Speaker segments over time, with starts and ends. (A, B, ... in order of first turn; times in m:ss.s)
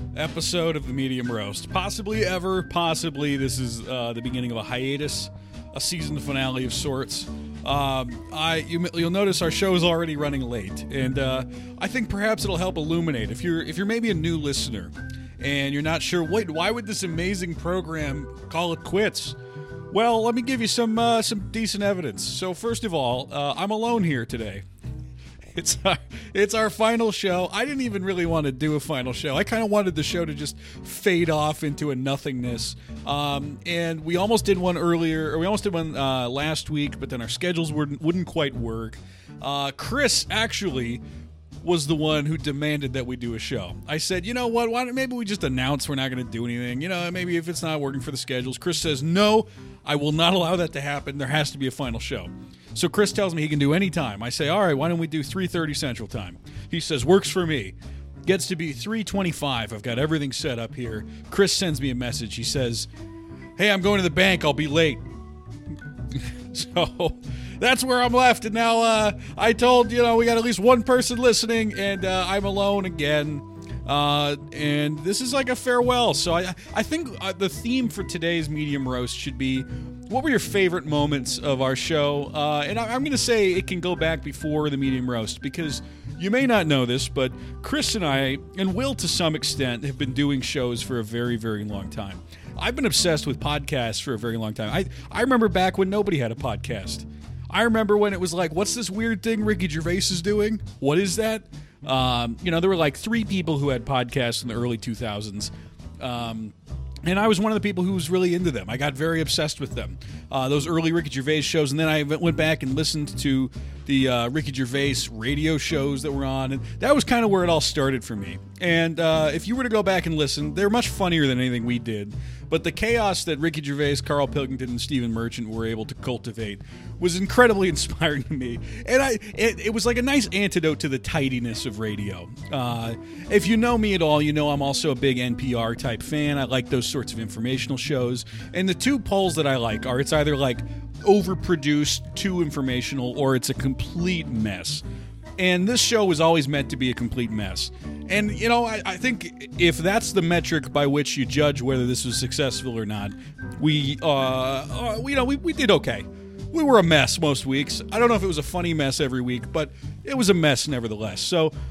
0:00.1-0:19.4 A
0:19.9-0:24.6 A
0:25.6-0:41.0 A
0:41.6-1:02.9 A
1:03.6-1:05.0 A
1:06.1-1:46.5 A
1:47.0-2:24.8 A
2:25.4-2:41.5 A